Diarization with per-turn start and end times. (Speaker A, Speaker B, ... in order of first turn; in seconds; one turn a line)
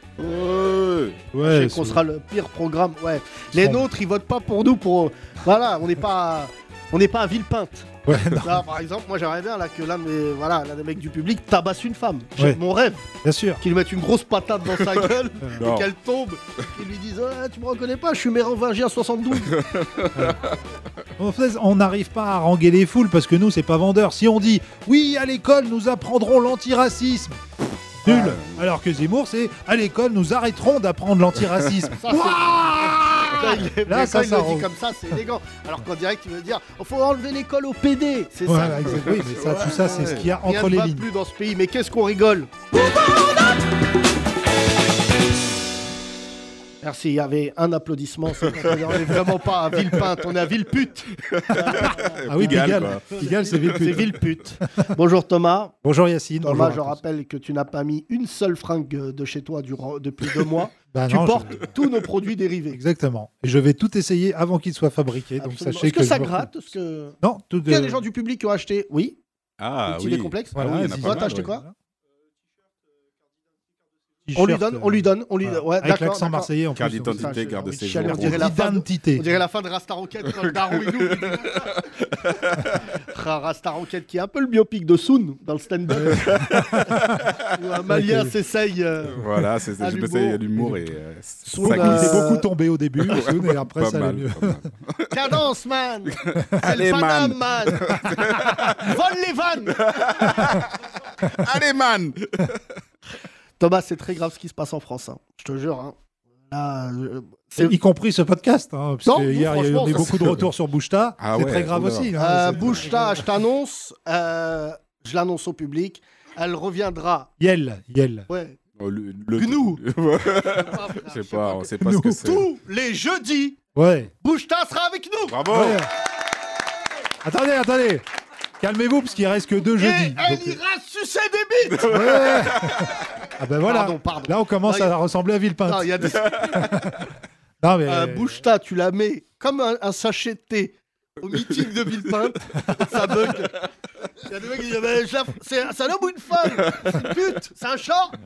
Speaker A: 0.2-1.3
Speaker B: 1.3-2.0
Speaker C: 1.4-13.1
Speaker B: 3.6-3.9
Speaker B: 8.1-8.7
Speaker B: 13.2-13.6
Speaker C: 13.6-19.6
Speaker A: 15.6-15.9
Speaker A: 19.5-20.6
Speaker B: 21.2-27.4
Speaker B: 28.0-34.7
Speaker A: 28.1-28.6
Speaker C: 31.9-43.5
Speaker B: 38.5-41.1
Speaker A: 39.6-40.2
Speaker C: 46.8-55.8
Speaker A: 51.2-54.0
Speaker B: 52.3-54.2
Speaker B: 55.8-57.0
Speaker C: 56.4-62.8
Speaker B: 60.9-61.7
Speaker B: 62.7-66.5
Speaker C: 65.4-69.2
Speaker B: 67.2-68.0
Speaker A: 69.6-71.5
Speaker C: 69.9-71.7
Speaker B: 70.5-71.8
Speaker B: 74.3-79.3
Speaker C: 74.3-81.7
Speaker A: 76.8-78.6
Speaker A: 80.8-82.7
Speaker C: 83.1-86.5
Speaker B: 85.9-87.2
Speaker A: 86.1-86.5
Speaker C: 87.5-90.5
Speaker B: 87.9-88.3
Speaker A: 89.2-92.3
Speaker C: 91.5-92.5
Speaker B: 91.6-94.6
Speaker A: 93.1-95.1
Speaker C: 95.1-98.1
Speaker A: 96.3-98.8
Speaker B: 98.0-98.7
Speaker C: 98.7-100.3
Speaker A: 99.8-100.7
Speaker A: 101.2-102.6
Speaker C: 103.6-106.0
Speaker C: 106.5-107.8
Speaker B: 107.6-113.2
Speaker C: 109.0-110.3
Speaker A: 110.1-110.4
Speaker A: 111.2-112.9
Speaker C: 112.2-117.3
Speaker B: 117.4-118.3
Speaker C: 118.3-118.6
Speaker A: 118.8-122.5
Speaker C: 119.3-119.8
Speaker C: 120.3-123.6
Speaker B: 121.8-122.3
Speaker B: 123.8-124.1
Speaker C: 124.2-125.5
Speaker A: 125.3-125.8
Speaker B: 125.5-125.9
Speaker B: 127.2-128.1
Speaker B: 128.6-130.6
Speaker C: 129.7-131.9
Speaker A: 131.7-132.9
Speaker B: 131.9-137.1
Speaker C: 133.6-135.0
Speaker C: 135.6-136.7
Speaker B: 137.6-138.4
Speaker C: 137.9-143.6
Speaker C: 144.2-148.2